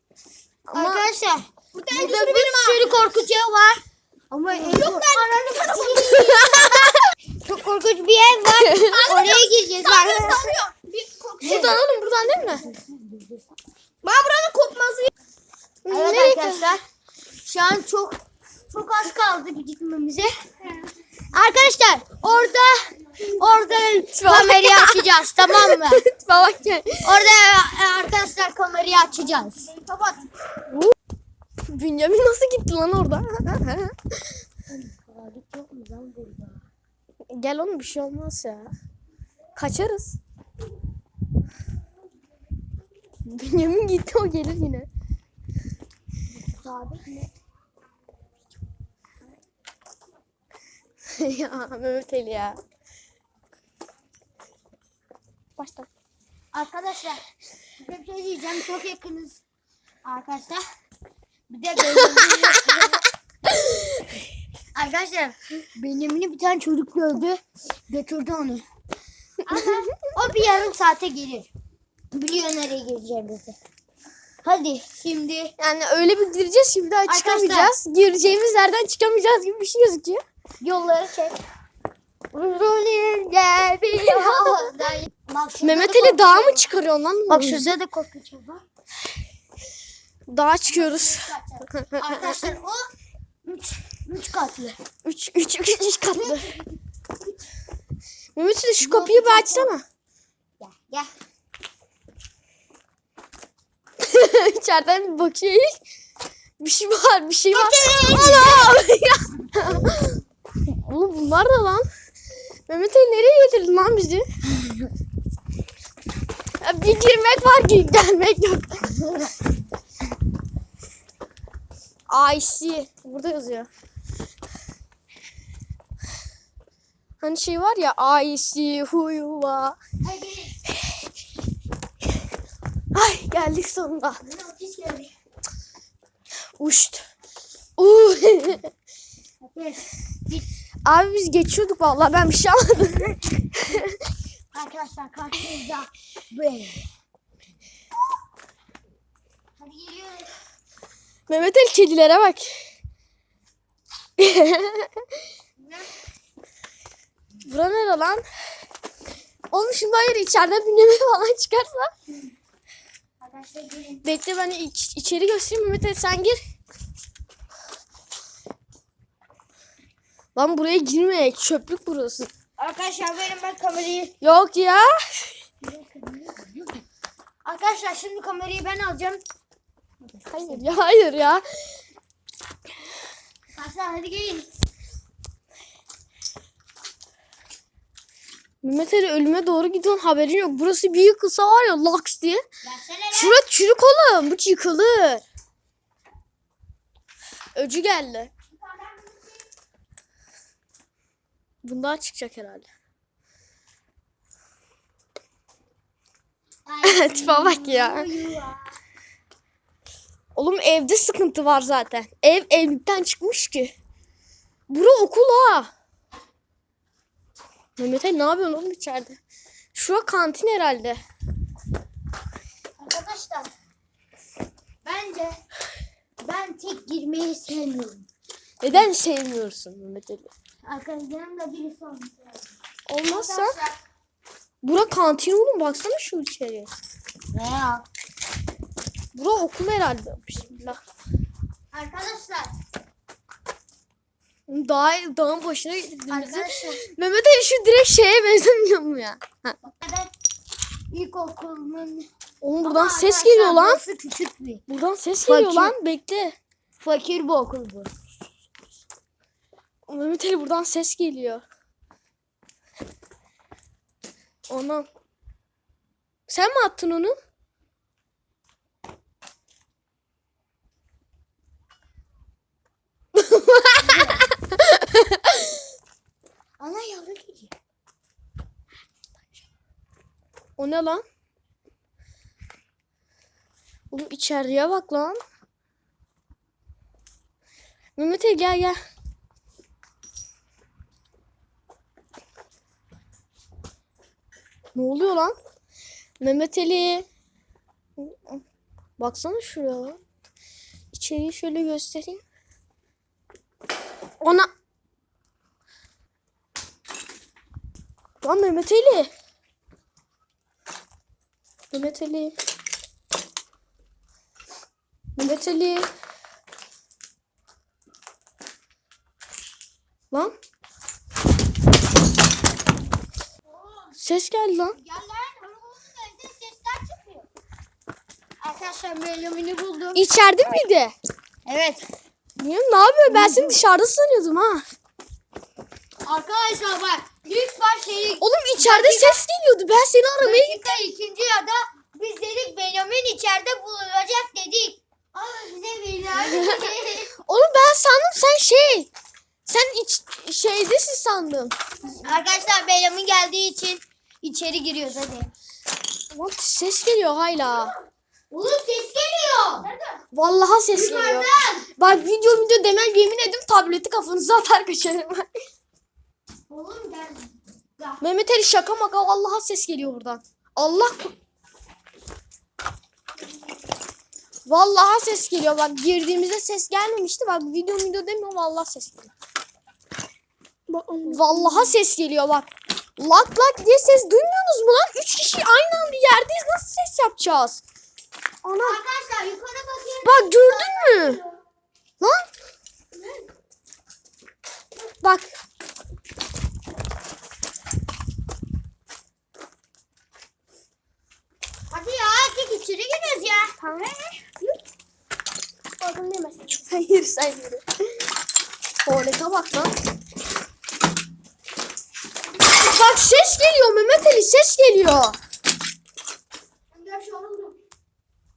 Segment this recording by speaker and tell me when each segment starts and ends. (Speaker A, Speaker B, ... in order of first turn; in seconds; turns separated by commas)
Speaker A: 0.7-1.0, Speaker B: 0.7-6.9, Speaker C: 1.7-2.8, Speaker A: 1.9-2.7, Speaker C: 4.7-5.2, Speaker A: 5.7-7.0, Speaker B: 7.4-11.8, Speaker A: 8.7-9.4, Speaker C: 9.8-10.7, Speaker A: 9.9-10.5, Speaker A: 11.4-12.7, Speaker B: 12.4-13.5, Speaker C: 14.0-15.1, Speaker A: 15.8-16.7, Speaker B: 15.9-16.8, Speaker B: 17.4-20.3, Speaker B: 21.3-26.0, Speaker A: 24.1-27.3, Speaker B: 27.0-30.3, Speaker A: 31.7-34.1, Speaker B: 34.7-36.6, Speaker A: 37.3-38.7, Speaker A: 39.5-40.2, Speaker A: 43.2-44.9, Speaker B: 46.4-47.2, Speaker A: 51.1-52.6, Speaker A: 55.6-55.9, Speaker B: 56.5-57.2, Speaker B: 57.8-59.4, Speaker B: 60.0-60.6, Speaker B: 61.5-63.0, Speaker A: 63.5-63.8, Speaker B: 64.7-68.6, Speaker B: 69.5-71.5, Speaker B: 72.1-73.6, Speaker B: 74.4-75.5, Speaker A: 75.6-80.2, Speaker B: 77.0-77.8, Speaker B: 80.6-81.4, Speaker B: 82.3-86.7, Speaker A: 84.0-84.7, Speaker A: 85.6-87.7, Speaker B: 87.3-88.6, Speaker A: 90.3-92.4, Speaker B: 90.7-92.9, Speaker B: 93.4-94.8, Speaker A: 95.0-96.5, Speaker B: 96.1-96.7, Speaker A: 98.3-99.8, Speaker B: 98.8-99.7, Speaker B: 100.6-101.1, Speaker A: 104.0-105.7, Speaker A: 106.6-111.8, Speaker B: 107.5-108.7, Speaker A: 112.7-114.2, Speaker A: 116.6-119.1, Speaker A: 122.1-123.7, Speaker A: 127.2-129.8, Speaker B: 130.0-130.6, Speaker A: 132.9-134.2, Speaker B: 134.2-135.1, Speaker A: 136.6-137.0, Speaker A: 137.8-138.7, Speaker B: 139.4-140.4, Speaker A: 140.8-143.9, Speaker B: 144.5-146.9, Speaker B: 149.6-150.3, Speaker A: 151.3-152.7, Speaker A: 154.2-155.0, Speaker B: 155.6-155.9, Speaker A: 157.4-158.2, Speaker A: 159.5-161.9, Speaker B: 163.2-164.1, Speaker A: 164.0-166.4, Speaker A: 170.3-172.3, Speaker B: 172.6-174.1, Speaker A: 174.2-175.3, Speaker B: 175.6-176.8, Speaker B: 177.4-179.2, Speaker B: 180.0-180.7, Speaker A: 180.3-181.4, Speaker B: 183.5-184.5, Speaker A: 188.6-192.4, Speaker B: 192.6-193.4, Speaker A: 193.1-195.2, Speaker A: 197.5-198.3, Speaker B: 198.6-199.4, Speaker A: 201.6-202.7, Speaker B: 206.7-208.8, Speaker A: 206.8-208.1, Speaker A: 210.3-213.7, Speaker A: 214.7-215.7, Speaker A: 217.8-219.2, Speaker A: 219.7-221.0, Speaker B: 222.8-223.5, Speaker B: 224.8-225.4, Speaker B: 226.2-228.1, Speaker A: 228.6-230.3, Speaker B: 230.6-232.5, Speaker A: 232.9-233.6, Speaker B: 233.0-233.8, Speaker A: 234.6-236.8, Speaker B: 237.3-237.8, Speaker A: 239.1-240.8, Speaker B: 241.7-242.5, Speaker A: 244.5-249.6, Speaker B: 246.1-246.9, Speaker B: 249.6-250.1, Speaker B: 250.9-252.1, Speaker A: 252.4-253.8, Speaker B: 252.6-254.6, Speaker A: 254.7-256.4, Speaker B: 255.2-255.7, Speaker B: 256.8-257.9, Speaker A: 259.9-261.4, Speaker A: 264.5-264.9, Speaker A: 266.3-267.1, Speaker A: 273.1-275.5, Speaker B: 273.8-274.3, Speaker B: 276.6-277.5, Speaker A: 280.6-281.0, Speaker A: 283.9-285.2, Speaker A: 288.0-288.8, Speaker A: 294.7-295.4, Speaker A: 296.2-297.1, Speaker A: 298.0-298.4, Speaker A: 299.0-300.0, Speaker A: 300.9-302.2, Speaker A: 304.2-304.5, Speaker A: 308.2-309.1, Speaker A: 311.7-312.3, Speaker A: 315.1-315.9, Speaker A: 324.0-324.8, Speaker B: 324.7-327.3, Speaker B: 328.4-330.1, Speaker A: 329.9-330.9, Speaker B: 331.4-331.9, Speaker A: 332.4-334.6, Speaker B: 333.1-333.6, Speaker B: 336.0-339.2, Speaker A: 338.2-340.8, Speaker B: 340.2-347.1, Speaker A: 346.2-346.6, Speaker A: 347.2-348.9, Speaker A: 349.4-351.6, Speaker B: 351.9-355.3, Speaker A: 356.1-357.7, Speaker B: 358.3-359.7, Speaker A: 360.1-365.3, Speaker B: 360.7-361.7, Speaker B: 366.5-368.0, Speaker A: 368.0-371.1, Speaker A: 374.5-379.1, Speaker C: 380.7-381.0, Speaker B: 380.8-381.7, Speaker A: 381.1-387.6, Speaker A: 388.4-388.8, Speaker B: 388.6-391.4, Speaker A: 390.0-391.2, Speaker A: 395.0-395.3, Speaker B: 401.7-404.4, Speaker A: 403.6-403.9, Speaker A: 406.3-407.6, Speaker A: 408.8-409.7, Speaker A: 412.4-415.1, Speaker B: 416.7-417.6